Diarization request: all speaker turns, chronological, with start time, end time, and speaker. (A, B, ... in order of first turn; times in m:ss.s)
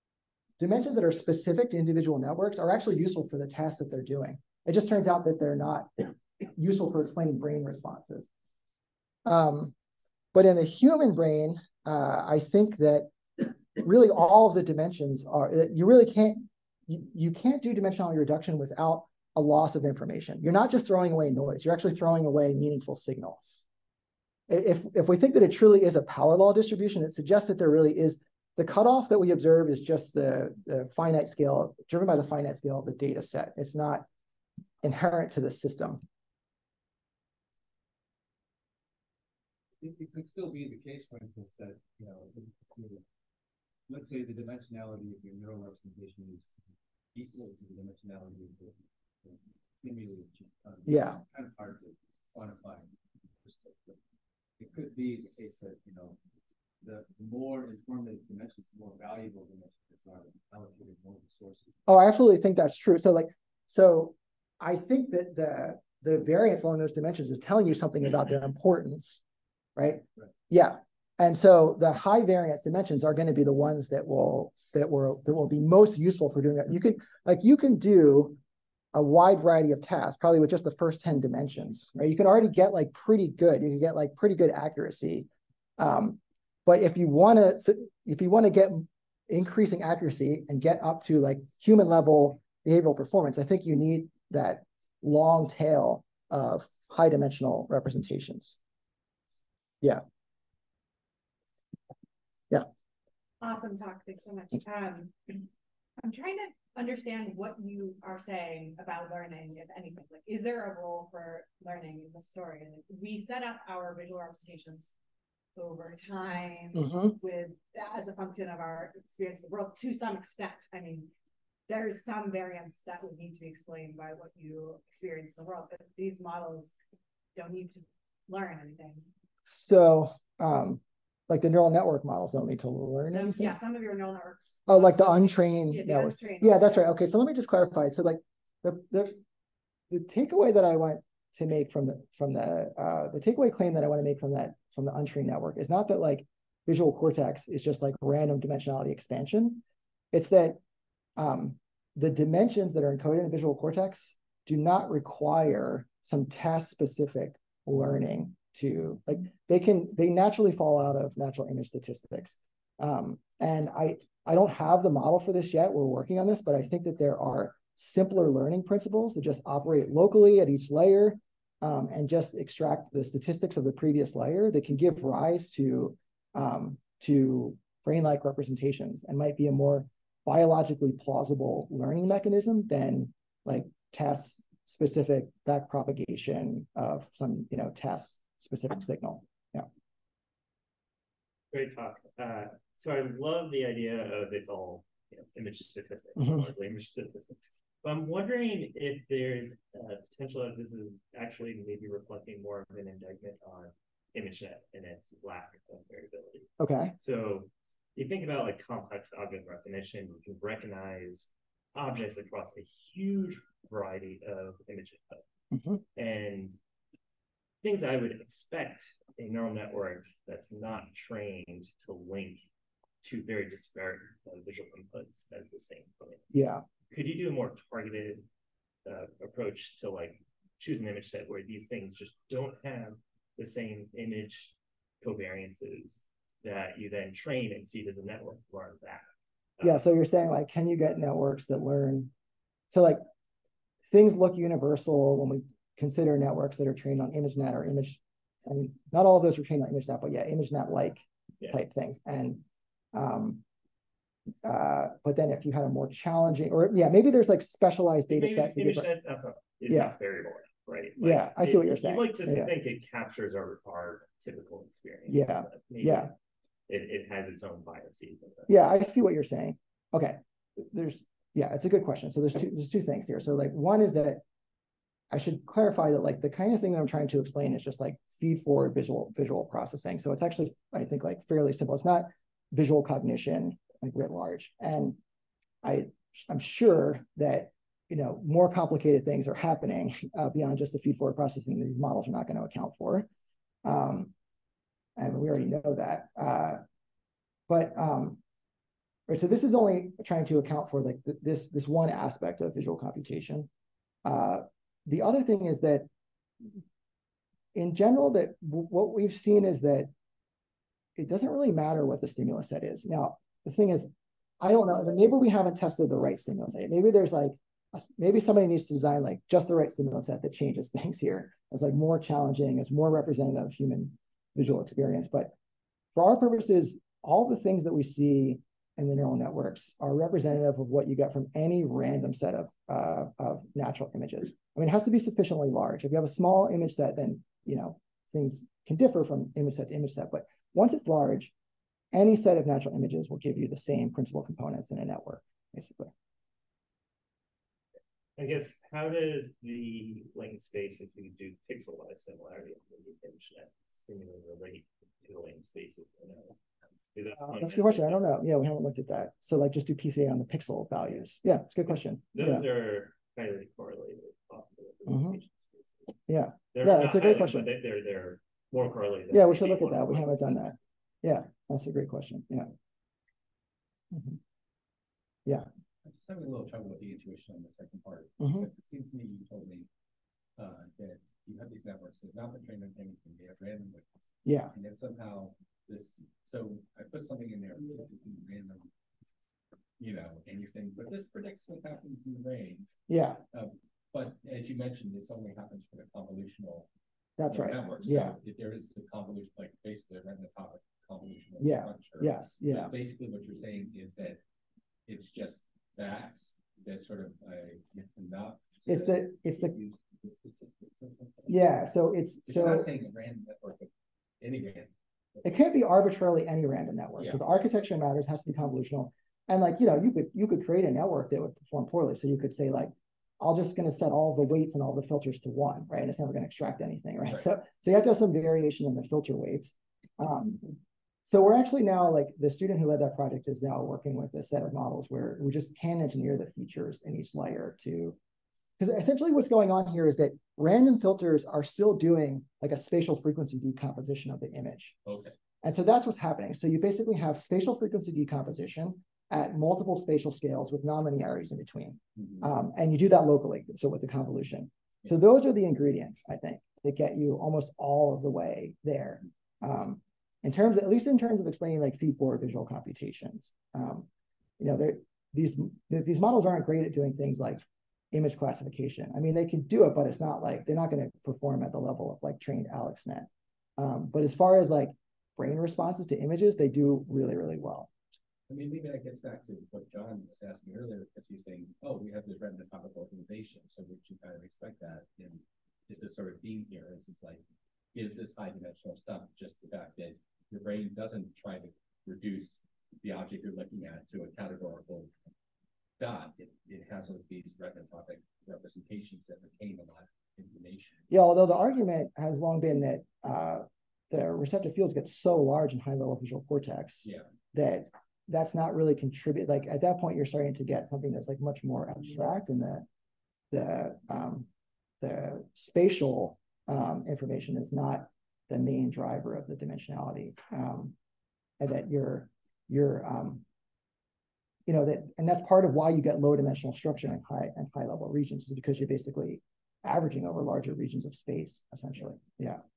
0:00.6-0:08.3 A
0:09.2-0:09.7 A
0:10.3-0:23.6 A
0:24.5-0:34.0 A
0:34.8-0:36.0 A
0:39.8-0:43.0 B
0:43.9-0:46.6 B
0:47.1-0:54.0 B
0:50.8-0:51.2 A
0:54.6-0:56.2 B
0:56.8-1:01.8 B
1:01.8-1:09.2 A
1:09.8-1:18.4 A
1:18.9-1:38.6 A
1:43.4-1:45.5 C
1:46.0-1:54.9 C
1:55.5-2:01.1 C
1:56.7-1:57.2 A
2:01.7-2:06.7 C
2:07.3-2:09.1 C
2:09.4-2:13.6 A
2:13.1-2:16.9 C
2:14.7-2:19.2 A
2:19.9-2:30.6 A
2:31.2-3:09.7 A
3:11.5-3:35.2 D
3:16.2-3:16.5 A
3:26.6-3:26.9 A
3:35.5-3:35.8 A
3:35.9-3:36.6 D
3:37.6-3:42.4 D
3:43.0-3:46.3 D
3:46.3-3:46.6 A
3:46.9-3:48.2 D
3:48.8-3:59.0 D
3:59.6-3:59.8 D
3:59.6-4:02.1 A
4:02.7-4:03.0 A
4:03.9-4:12.4 A
4:12.9-4:13.4 A
4:14.4-4:18.9 A
4:18.1-4:26.1 D
4:19.7-4:20.0 A
4:21.0-4:22.5 A
4:25.1-4:26.1 A
4:26.7-4:28.5 D
4:28.5-4:34.2 A
4:35.1-4:45.0 A
4:45.6-4:53.1 A
4:53.6-4:54.1 A
4:55.0-4:56.6 A
4:57.5-4:58.2 A
4:59.1-5:03.5 A
5:04.0-5:05.9 A
5:07.5-5:09.9 A
5:11.0-5:13.9 A
5:14.4-5:25.3 A
5:25.9-5:41.3 A
5:41.9-5:45.9 A
5:48.2-5:56.4 D
5:56.9-5:58.0 D
5:57.2-6:02.4 A
6:02.1-6:05.9 D
6:04.8-6:05.2 A
6:06.1-6:07.5 A
6:06.5-6:10.1 D
6:09.1-6:12.5 A
6:13.9-6:14.2 A
6:15.8-6:19.7 E
6:18.2-6:18.5 A
6:20.4-6:23.9 E
6:24.2-6:24.5 A
6:24.5-6:28.7 E
6:29.8-6:36.7 E
6:32.9-6:33.2 A
6:37.2-6:38.2 A
6:37.3-6:44.2 E
6:41.4-6:42.7 A
6:44.9-6:51.4 E
6:48.7-6:49.5 A
6:51.3-6:52.7 A
6:52.3-6:55.4 E
6:55.2-7:18.0 A
7:18.6-7:24.7 A
7:24.8-7:25.1 E
7:25.4-7:43.9 A
7:32.0-7:32.3 E
7:44.4-7:57.7 A
7:58.3-8:07.2 E
8:07.7-8:14.9 E
8:15.8-8:20.9 E
8:20.9-8:32.6 A
8:33.3-8:34.3 A
8:34.8-8:40.7 A
8:41.4-8:43.2 A
8:44.5-8:52.4 A